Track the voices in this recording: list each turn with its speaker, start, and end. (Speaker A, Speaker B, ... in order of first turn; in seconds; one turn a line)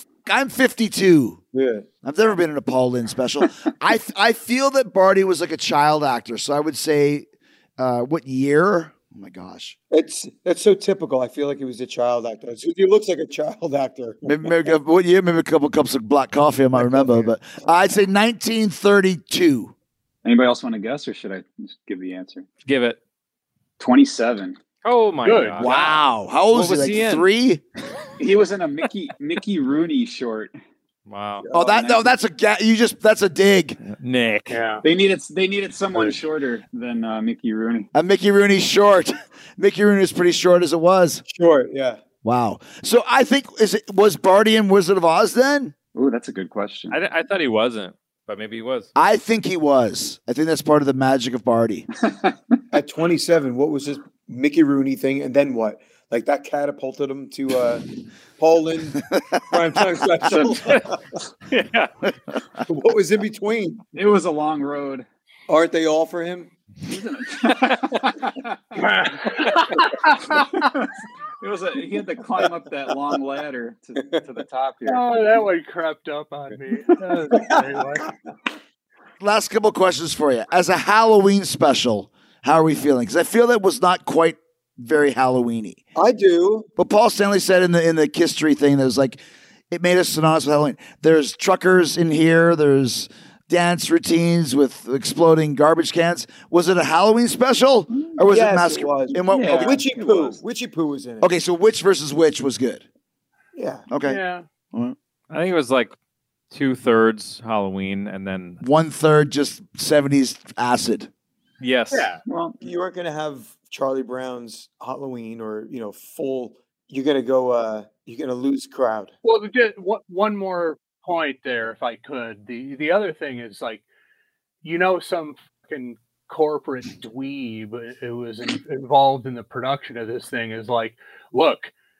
Speaker A: 0.2-1.4
Speaker B: 1.5-1.9
Speaker A: 2.0-7.2
Speaker A: 7.8-9.8
Speaker B: 9.9-14.2
Speaker A: 14.2-19.7
Speaker B: 16.7-17.3
Speaker C: 20.2-22.5
Speaker D: 22.6-23.0
Speaker C: 23.8-24.6
Speaker D: 24.8-25.7
Speaker E: 25.2-25.7
Speaker A: 25.6-27.6
Speaker D: 26.5-27.3
Speaker C: 28.2-30.5
Speaker D: 31.1-31.4
Speaker B: 31.4-32.1
Speaker A: 31.5-33.8
Speaker D: 33.8-34.6
Speaker E: 34.5-34.8
Speaker C: 34.8-37.9
Speaker A: 37.9-41.2
Speaker B: 41.3-42.0
Speaker A: 42.2-45.7
Speaker C: 45.9-47.0
Speaker D: 46.9-48.9
Speaker A: 49.0-51.9
Speaker B: 52.7-61.0
Speaker C: 60.2-60.8
Speaker D: 61.5-61.9
Speaker B: 62.7-63.8
Speaker C: 63.9-65.0
Speaker B: 65.5-66.5
Speaker C: 66.8-69.4
Speaker E: 68.8-70.4
Speaker C: 70.2-75.0
Speaker E: 74.8-78.1
Speaker B: 77.3-77.7
Speaker A: 79.2-85.8
Speaker B: 86.0-86.7
Speaker A: 86.8-99.8
Speaker B: 98.3-101.3
Speaker C: 99.3-100.4
Speaker A: 101.2-102.8
Speaker B: 103.5-103.8
Speaker A: 103.9-104.2
Speaker E: 104.0-104.4
Speaker D: 105.3-105.9
Speaker D: 106.5-108.6
Speaker A: 108.6-111.1
Speaker D: 111.6-112.2
Speaker C: 112.2-112.6
Speaker B: 112.6-119.1
Speaker E: 119.2-123.8
Speaker E: 124.6-131.7